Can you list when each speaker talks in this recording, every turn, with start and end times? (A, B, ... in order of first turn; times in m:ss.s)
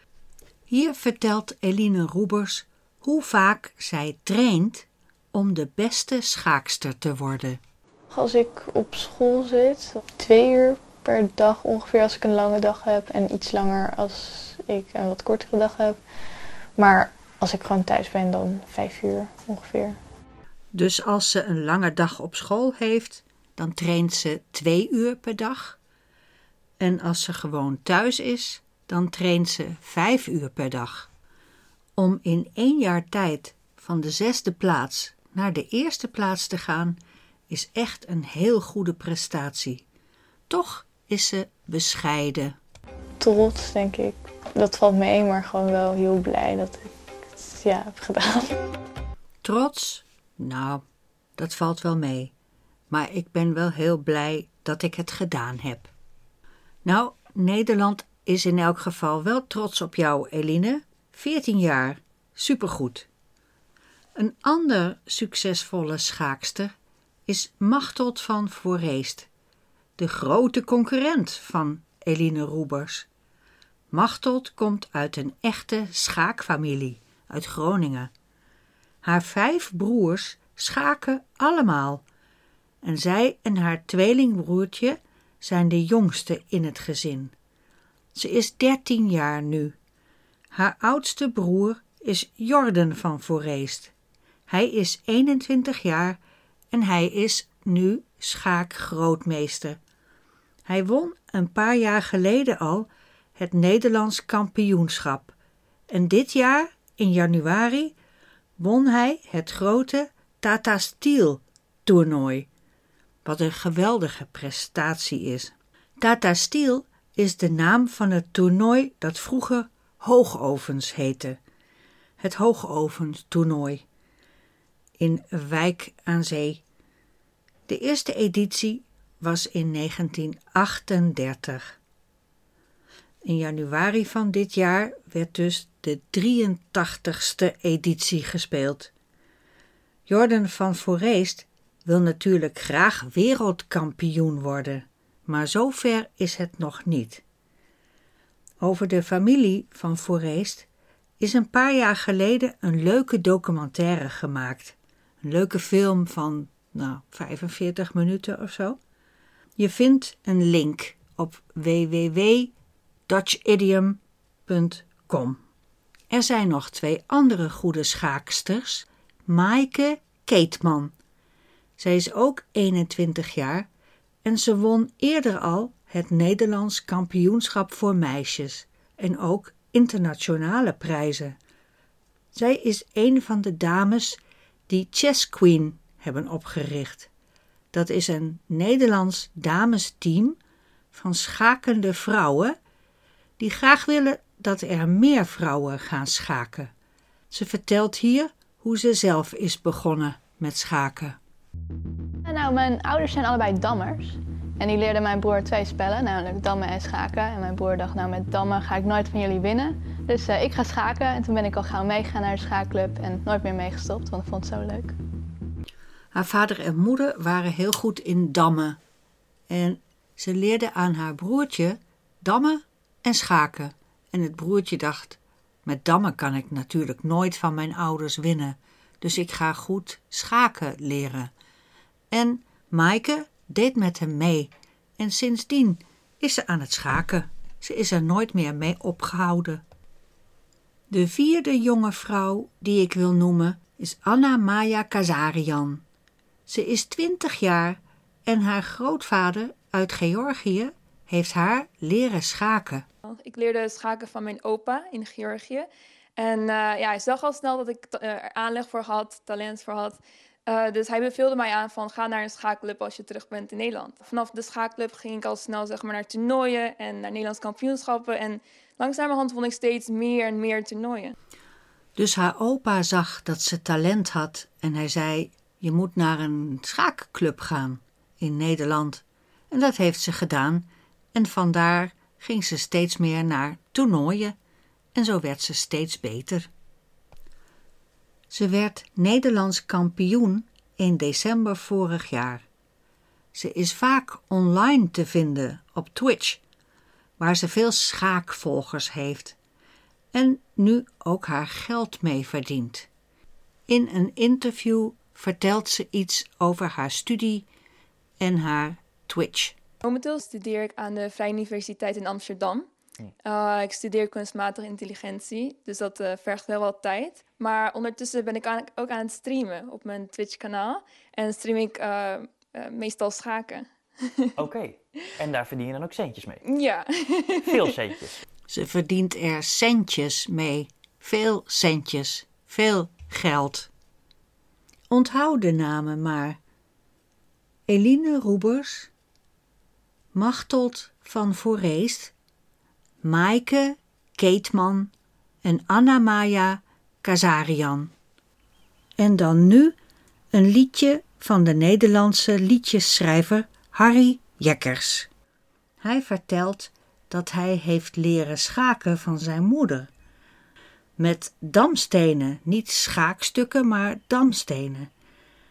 0:00.7-0:07.6 A
0:08.1-0:16.0 B
0:16.8-0:20.0 B
0:20.7-0:25.8 A
0:26.8-0:31.1 A
0:32.0-0:37.0 A
0:37.5-0:39.8 A
0:40.5-0:42.6 A
0:43.2-0:48.6 B
0:49.4-0:50.8 A
0:51.4-0:52.3 A
0:52.9-0:55.9 A
0:56.8-1:03.1 A
1:04.2-1:06.7 A
1:07.3-1:09.3 A
1:10.0-1:13.1 A
1:13.9-1:18.1 A
1:19.0-1:22.0 A
1:22.8-1:27.3 A
1:28.2-1:29.8 A
1:30.5-1:33.9 A
1:34.5-1:36.2 A
1:36.7-1:39.8 A
1:40.7-1:45.3 A
1:45.9-1:48.0 A
1:48.6-1:52.5 A
1:53.2-2:01.4 A
2:02.2-2:03.8 A
2:05.0-2:06.6 A
2:07.7-2:11.8 A
2:13.2-2:18.9 A
2:20.1-2:27.2 A
2:28.6-2:30.7 A
2:31.2-2:38.8 A
2:39.6-2:42.5 A
2:43.1-2:45.4 A
2:46.1-2:50.9 A
2:51.8-2:53.7 A
2:54.2-3:01.4 A
3:02.3-3:07.1 A
3:07.7-3:10.4 A
3:10.9-3:12.6 A
3:13.4-3:16.7 A
3:17.3-3:21.2 A
3:22.3-3:35.0 B
3:36.1-3:38.8 A
3:39.5-3:51.3 A
3:52.1-3:59.6 A
4:00.9-4:05.8 A
4:06.5-4:12.9 A
4:13.1-4:31.2 C
4:32.0-4:44.4 A
4:45.0-4:46.5 A
4:48.3-4:52.4 A
4:53.3-4:56.4 A
4:57.2-4:59.4 A
5:00.1-5:02.9 A
5:03.7-5:07.5 A
5:08.2-5:09.6 A
5:09.8-5:12.7 C
5:13.2-5:24.3 C
5:24.4-5:26.4 D
5:26.4-5:27.7 C
5:27.5-5:28.2 D
5:28.5-5:33.7 A
5:34.9-5:36.4 A
5:37.7-5:38.9 A
5:40.1-5:42.1 A
5:43.0-5:44.9 A
5:45.4-5:47.9 A
5:49.0-5:49.8 A
5:50.3-5:55.1 A
5:55.8-5:59.9 A
6:01.0-6:04.9 A